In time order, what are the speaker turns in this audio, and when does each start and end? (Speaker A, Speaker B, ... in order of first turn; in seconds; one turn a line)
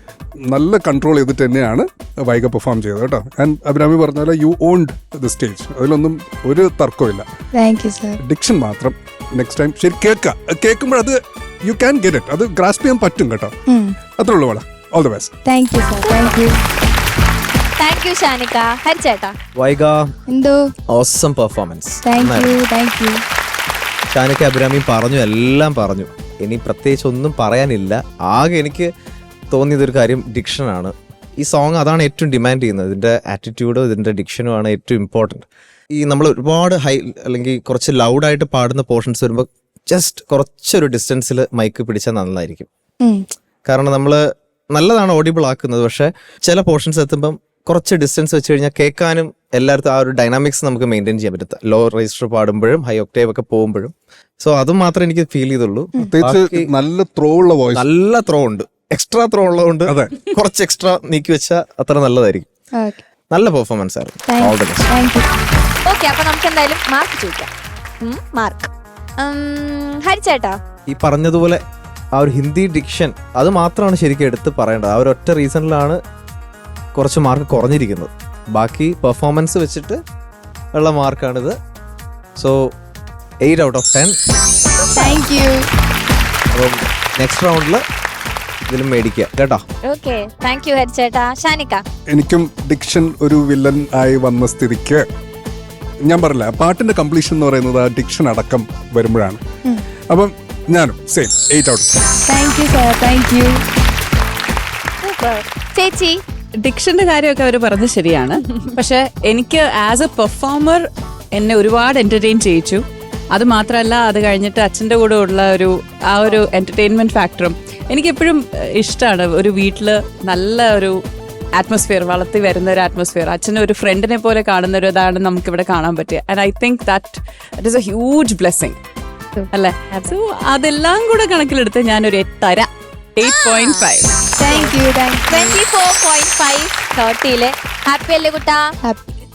Speaker A: 0.5-7.2
Speaker B: 7.5-8.2
Speaker A: 8.2-13.5
Speaker B: 13.7-14.0
Speaker A: 14.2-15.3
Speaker B: 15.4-16.6
Speaker C: 16.0-16.4
Speaker C: 17.8-19.4
Speaker D: 19.6-20.1
Speaker B: 20.3-20.6
Speaker D: 20.9-22.6
Speaker B: 22.0-23.2
Speaker D: 24.1-28.9
Speaker D: 29.5-42.7
Speaker D: 43.7-56.7
Speaker A: 56.1-57.9
Speaker D: 57.8-62.5
Speaker A: 59.9-60.1
Speaker B: 62.7-63.0
Speaker D: 63.3-64.9
Speaker B: 64.3-65.3
Speaker C: 65.8-67.5
Speaker C: 68.0-70.6
Speaker D: 70.9-71.6
Speaker D: 72.2-76.0
Speaker D: 77.0-80.0
Speaker D: 80.7-81.5
Speaker D: 83.4-84.2
Speaker B: 85.0-85.7
Speaker D: 86.5-87.8
Speaker D: 88.7-89.7
Speaker C: 89.8-91.8
Speaker A: 92.1-95.0
Speaker A: 96.1-99.4
Speaker A: 100.1-102.0
Speaker B: 102.3-103.6
Speaker C: 105.0-106.2
Speaker E: 106.6-121.0
Speaker E: 121.5-128.8
Speaker C: 129.4-130.1
Speaker E: 129.5-134.2
Speaker C: 133.2-133.9
Speaker B: 134.4-135.6
Speaker C: 134.4-134.8
Speaker C: 135.3-138.7